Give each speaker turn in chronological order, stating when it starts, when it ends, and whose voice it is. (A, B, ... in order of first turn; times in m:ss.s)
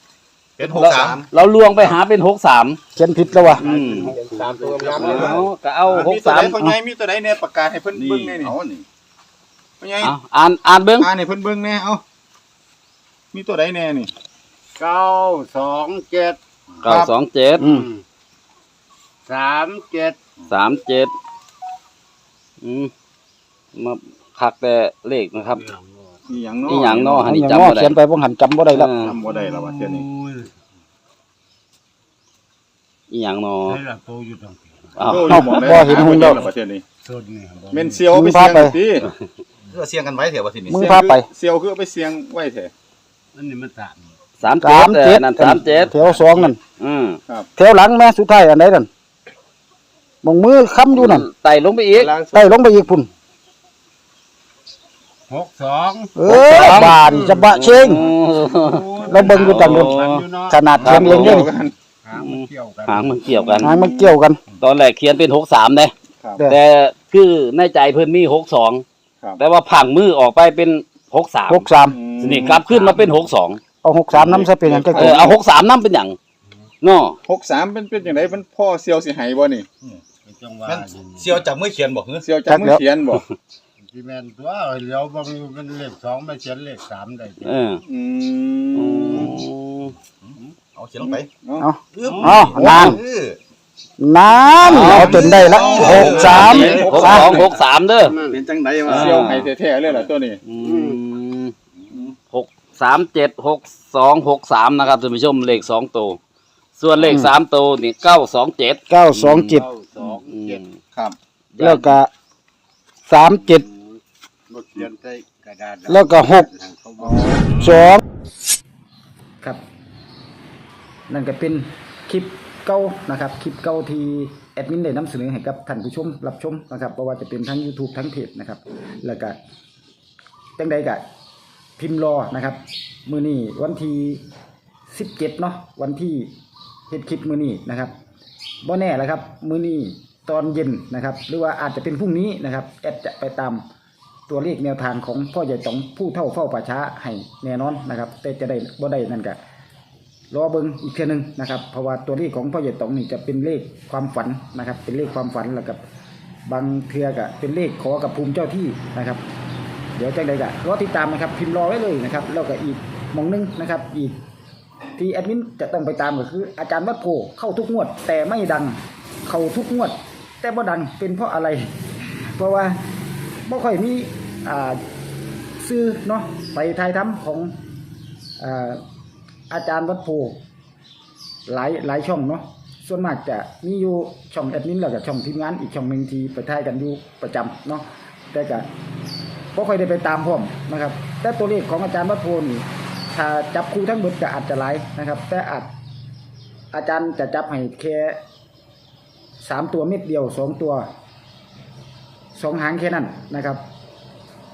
0:00.6-0:01.2 A
0:00.6-0:01.3 B
0:00.7-0:02.8 C
0:03.0-0:03.7 D
0:03.6-0:04.2 C
0:03.6-0:08.5 B
0:03.7-0:05.3 E
0:04.9-0:06.6 C
0:07.9-0:08.8 A
0:09.8-0:10.1 B
0:10.0-0:11.1 C
0:11.0-0:12.0 B
0:13.3-0:14.1 B
0:14.8-0:16.4 E
0:16.8-0:17.7 C
0:16.8-0:17.1 B
0:17.6-0:17.9 D
0:17.6-0:18.0 E
0:19.2-0:20.2 E
0:20.5-0:21.1 C
0:22.6-0:22.9 C
0:23.7-0:25.6 C
0:25.5-0:26.2 E
0:26.3-0:27.3 B
0:26.7-0:28.0 C
0:27.2-0:28.9 D
0:28.7-0:29.2 C
0:29.0-0:30.0 B
0:29.3-0:30.5 E
0:33.1-0:33.8 C
0:33.7-0:35.1 E
0:35.0-0:35.9 C
0:35.0-0:36.8 B
0:35.3-0:36.4 D
0:36.0-0:36.4 A
0:37.0-0:38.1 E
0:37.7-0:39.1 B
0:38.1-0:38.8 D
0:39.7-0:40.9 A
0:40.7-0:41.3 D
0:40.7-0:42.7 B
0:43.3-0:44.2 E
0:44.4-0:46.0 C
0:44.6-0:46.6 D
0:45.6-0:46.5 E
0:46.8-0:47.2 C
0:47.6-0:48.9 D
0:50.2-0:51.3 D
0:50.9-0:52.2 C
0:52.0-0:52.4 B
0:52.2-0:53.1 D
0:55.3-0:57.5 E
0:56.2-0:58.0 D
0:56.2-1:00.2 C
0:58.6-1:01.4 E
0:59.0-1:00.0 D
1:00.5-1:01.5 D
1:00.8-1:01.7 B
1:00.8-1:01.5 C
1:02.0-1:03.5 E
1:02.2-1:03.7 C
1:03.4-1:03.8 B
1:03.6-1:04.4 D
1:04.6-1:08.8 C
1:09.4-1:13.6 C
1:11.5-1:12.0 D
1:11.9-1:12.8 B
1:13.8-1:15.4 D
1:14.1-1:16.2 C
1:14.2-1:15.3 B
1:16.8-1:17.2 C
1:17.2-1:19.7 B
1:20.2-1:21.4 E
1:20.6-1:22.3 A
1:22.2-1:23.2 B
1:22.5-1:22.8 D
1:23.8-1:27.6 E
1:27.4-1:27.8 C
1:27.8-1:29.4 B
1:28.7-1:29.9 C
1:30.2-1:31.3 A
1:31.0-1:31.7 B
1:31.6-1:33.0 D
1:31.9-1:33.4 A
1:32.0-1:32.5 E
1:34.0-1:37.4 D
1:34.5-1:37.5 A
1:34.6-1:38.2 C
1:35.4-1:37.5 B
1:38.0-1:38.4 E
1:38.2-1:39.2 A
1:38.9-1:39.5 C
1:38.9-1:40.4 B
1:40.4-1:41.5 C
1:40.6-1:41.0 E
1:42.3-1:46.2 C
1:46.8-1:50.7 C
1:47.0-1:47.3 D
1:48.9-1:49.7 D
1:49.5-1:50.6 E
1:51.5-1:51.9 C
1:51.6-1:52.1 D
1:53.1-1:53.6 D
1:53.4-1:58.0 E
1:55.9-1:56.5 D
1:57.0-1:58.0 D
2:01.1-2:09.4 D
2:10.6-2:11.0 D
2:11.8-2:14.2 D
2:14.9-2:16.3 D
2:16.9-2:17.9 D
2:18.6-2:23.6 D
2:24.3-2:29.4 D
2:30.3-2:35.8 D
2:36.4-2:39.2 D
2:40.0-2:44.1 D
2:45.0-2:51.7 D
2:52.3-2:52.8 D
2:53.4-2:54.8 D
2:55.6-2:57.6 D
2:58.4-2:58.8 D
2:59.5-3:00.4 D
3:01.5-3:08.7 D
3:09.5-3:15.7 D
3:16.7-3:18.2 D
3:19.4-3:20.8 D
3:22.3-3:23.6 D